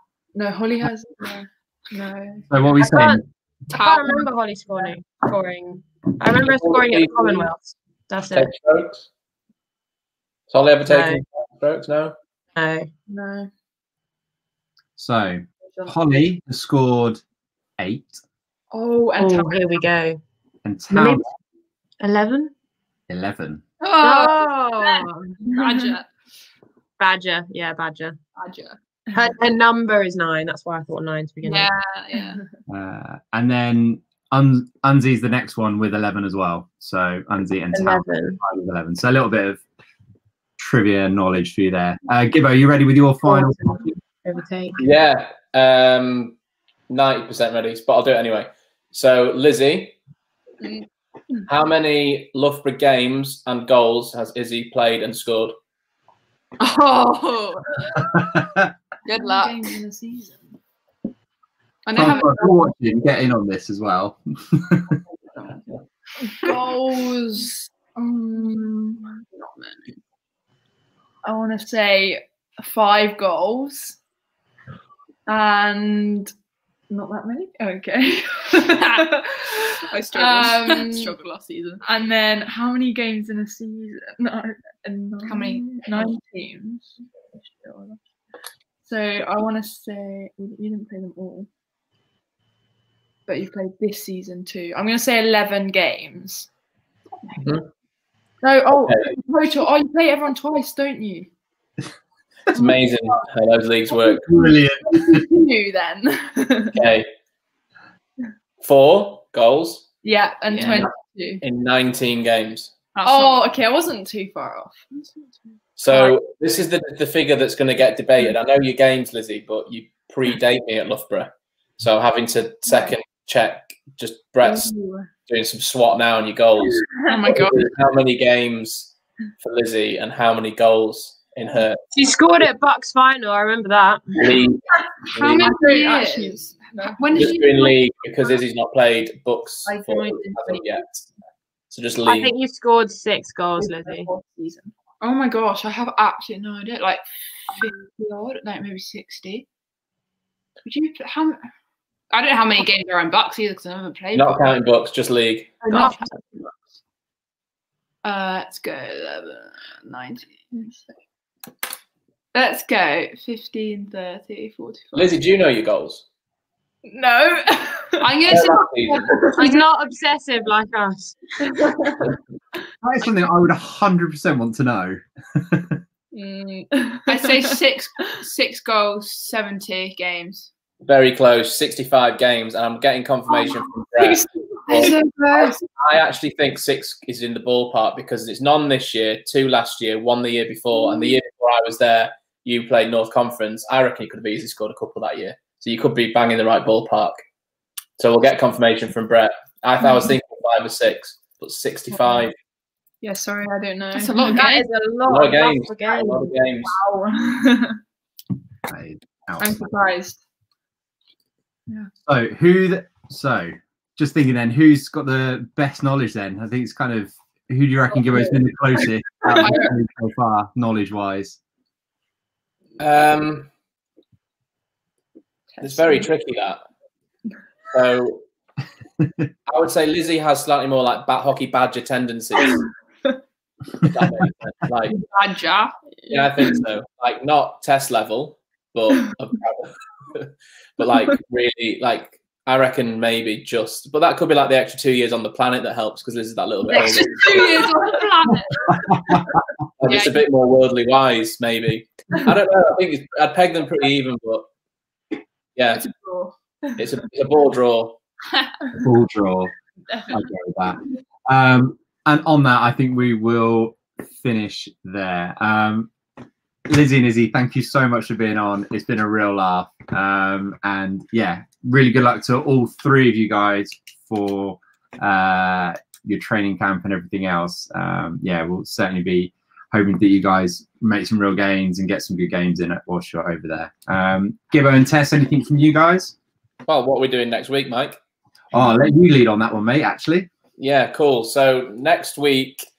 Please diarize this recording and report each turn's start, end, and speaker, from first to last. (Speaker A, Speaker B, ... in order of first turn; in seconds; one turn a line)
Speaker A: 0.3-2.4
Speaker B: 2.5-3.2
Speaker C: 2.8-8.5
Speaker D: 3.7-4.3
Speaker E: 6.3-7.5
Speaker E: 8.3-9.1
Speaker E: 10.5-12.2
Speaker C: 10.9-11.2
Speaker C: 12.6-12.9
Speaker A: 13.1-13.5
Speaker B: 15.0-17.2
Speaker B: 17.8-18.2
Speaker D: 18.7-19.8
Speaker C: 19.2-20.2
Speaker B: 20.6-21.3
Speaker C: 20.9-21.2
Speaker C: 22.0-22.5
Speaker B: 23.1-23.6
Speaker D: 23.8-24.5
Speaker C: 24.0-25.4
Speaker A: 25.4-26.1
Speaker D: 25.5-26.0
Speaker C: 27.0-28.2
Speaker D: 28.4-28.8
Speaker C: 29.1-31.7
Speaker D: 31.4-32.4
Speaker B: 32.7-39.6
Speaker C: 37.7-38.4
Speaker B: 40.6-44.0
Speaker C: 43.3-44.8
Speaker E: 44.8-46.4
Speaker E: 46.9-50.0
Speaker A: 50.6-51.4
Speaker E: 51.5-55.5
Speaker D: 56.6-58.0
Speaker B: 58.0-58.7
Speaker D: 59.0-59.6
Speaker A: 59.1-60.5
Speaker D: 61.9-62.7
Speaker B: 61.9-65.0
Speaker D: 65.4-65.6
Speaker D: 66.2-66.6
Speaker A: 66.4-69.2
Speaker D: 69.3-70.0
Speaker A: 71.2-74.0
Speaker A: 75.3-76.3
Speaker A: 76.9-81.2
Speaker D: 79.7-81.8
Speaker A: 81.8-88.0
Speaker D: 85.2-86.1
Speaker A: 88.8-91.5
Speaker A: 93.3-96.5
Speaker E: 97.4-97.7
Speaker A: 98.4-101.3
Speaker E: 98.8-99.2
Speaker A: 102.5-103.2
Speaker E: 102.5-104.2
Speaker B: 104.2-105.3
Speaker A: 104.9-106.8
Speaker E: 106.7-107.1
Speaker E: 108.6-109.9
Speaker A: 110.0-111.4
Speaker E: 110.5-110.9
Speaker D: 110.6-110.9
Speaker E: 111.4-112.7
Speaker D: 113.0-113.4
Speaker A: 113.0-116.2
Speaker E: 115.8-124.7
Speaker A: 124.4-125.1
Speaker E: 125.3-131.8
Speaker A: 126.9-127.3
Speaker D: 127.1-127.7
Speaker C: 131.9-134.2
Speaker E: 134.2-135.6
Speaker D: 135.1-137.8
Speaker A: 135.3-137.3
Speaker E: 137.1-141.1
Speaker D: 139.7-140.6
Speaker A: 139.7-140.6
Speaker E: 141.7-142.3
Speaker C: 142.1-144.1
Speaker A: 143.6-144.7
Speaker D: 145.0-149.5
Speaker D: 150.6-151.4
Speaker D: 152.1-154.4
Speaker E: 154.1-155.6
Speaker D: 155.7-156.1
Speaker C: 155.7-156.2
Speaker D: 158.0-160.3
Speaker A: 160.5-161.0
Speaker D: 162.3-165.2
Speaker E: 164.9-166.1
Speaker A: 166.9-168.2
Speaker D: 168.0-169.7
Speaker E: 168.3-169.1
Speaker A: 169.1-169.4
Speaker C: 169.4-171.2
Speaker A: 171.5-172.0
Speaker B: 172.8-175.8
Speaker A: 176.1-177.6
Speaker D: 177.1-180.5
Speaker E: 180.8-197.2
Speaker A: 184.0-185.6
Speaker D: 184.8-185.5
Speaker E: 198.0-202.3
Speaker A: 199.8-200.1
Speaker A: 203.0-204.5
Speaker D: 203.9-204.7
Speaker C: 204.2-206.3
Speaker E: 205.1-206.7
Speaker A: 206.6-207.8
Speaker B: 208.7-209.6
Speaker A: 209.4-210.2
Speaker B: 212.1-221.4
Speaker A: 219.3-219.7
Speaker E: 222.8-223.5
Speaker A: 225.6-226.1
Speaker E: 225.6-226.6
Speaker E: 227.7-228.2
Speaker B: 229.0-229.3
Speaker E: 229.5-232.6
Speaker A: 232.6-233.2
Speaker E: 233.9-235.0
Speaker D: 234.9-235.8
Speaker A: 235.9-236.6
Speaker E: 236.1-247.7
Speaker D: 246.7-248.9
Speaker A: 246.8-247.9
Speaker B: 248.8-249.3
Speaker E: 249.8-254.5
Speaker D: 249.9-250.2
Speaker E: 255.6-255.9
Speaker D: 255.8-256.3
Speaker E: 256.8-258.0
Speaker B: 258.8-259.5
Speaker B: 260.1-265.9
Speaker B: 266.7-286.2
Speaker E: 286.7-288.0
Speaker B: 288.5-290.3
Speaker E: 290.6-292.6